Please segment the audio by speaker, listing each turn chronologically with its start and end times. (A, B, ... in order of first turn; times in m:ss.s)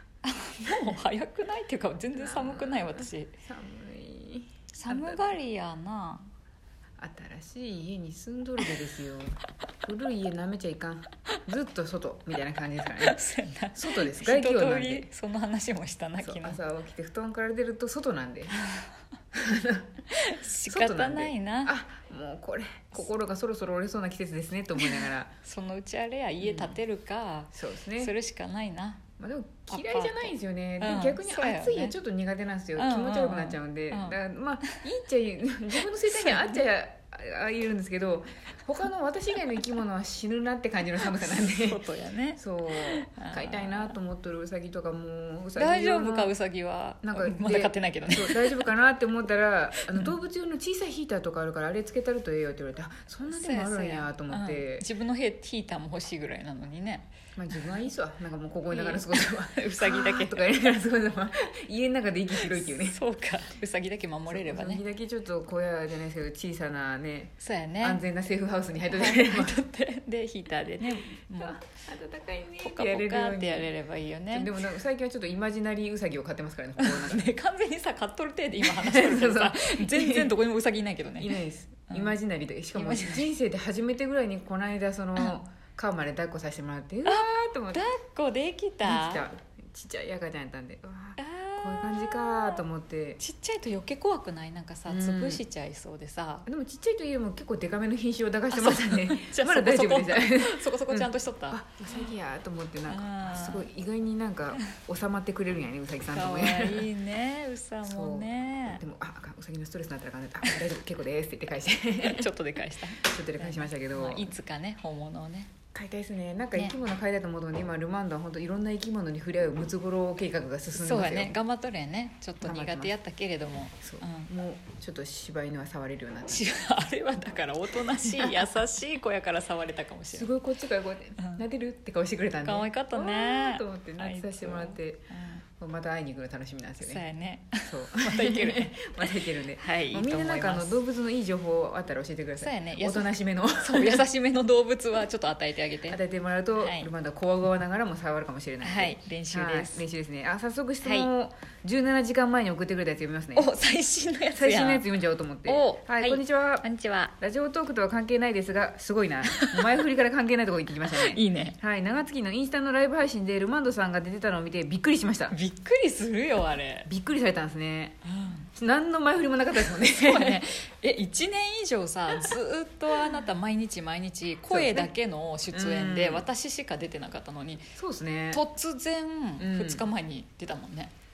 0:00.2-0:03.3 A
0:00.6-0:01.0 B
0:02.1-0:05.4 B
0:04.7-0:06.3 A
0:07.0-0:13.2 B
0:13.0-0:16.6 A
0:13.7-0:15.1 B
0:16.2-0:18.6 B
0:18.6-0:18.9 A
0:19.3-0:19.9 B
0:20.1-0:21.7 A
0:20.7-0:25.3 B
0:24.8-0:29.0 A
0:26.4-0:26.8 B
0:27.5-0:28.1 B
0:29.2-0:41.8 B
0:29.7-0:32.0 A
0:32.8-0:34.8 A
0:36.0-0:36.6 A
0:41.2-0:44.0 A
0:42.4-0:46.3 B
0:45.6-0:48.7 A
0:47.0-0:54.8 B
0:49.7-0:50.1 A
0:53.3-0:57.8 A
0:57.4-1:03.0 B
0:58.7-1:00.7 A
1:02.4-1:04.8 A
1:04.3-1:09.6 B
1:07.4-1:08.0 A
1:08.9-1:11.6 A
1:11.4-1:13.7 B
1:12.6-1:14.6 A
1:14.3-1:17.3 B
1:16.8-1:21.4 A
1:18.6-1:20.3 B
1:21.2-1:27.8 B
1:21.9-1:22.2 A
1:22.8-1:23.3 A
1:27.1-1:29.2 A
1:28.8-1:33.2 B
1:31.2-1:32.6 A
1:33.2-1:36.5 A
1:34.9-1:35.4 B
1:36.5-1:46.9 B
1:38.5-1:42.1 A
1:42.9-1:43.7 A
1:46.1-1:48.8 A
1:47.8-1:52.3 B
1:52.0-1:55.5 A
1:53.0-1:54.3 B
1:55.7-2:01.4 B
2:00.8-2:04.3 A
2:02.4-2:02.9 B
2:03.8-2:06.4 B
2:06.3-2:10.3 A
2:08.0-2:08.5 B
2:10.1-2:15.1 B
2:12.4-2:15.4 A
2:15.6-2:17.0 B
2:16.8-2:19.1 A
2:17.6-2:24.0 B
2:19.6-2:20.8 A
2:22.4-2:26.0 A
2:25.9-2:33.5 B
2:26.6-2:26.9 A
2:28.6-2:29.8 A
2:30.8-2:31.1 A
2:33.4-2:34.9 A
2:34.4-2:36.6 B
2:35.5-2:37.1 A
2:37.2-2:45.4 B
2:39.3-2:39.7 A
2:40.9-2:41.6 A
2:45.3-2:46.9 A
2:46.9-2:48.0 B
2:48.0-2:48.5 A
2:48.5-2:50.5 B
2:49.7-2:57.7 A
2:54.5-2:54.9 B
2:55.5-2:56.3 B
2:57.8-2:58.4 B
2:58.3-3:00.9 A
2:59.4-2:59.9 B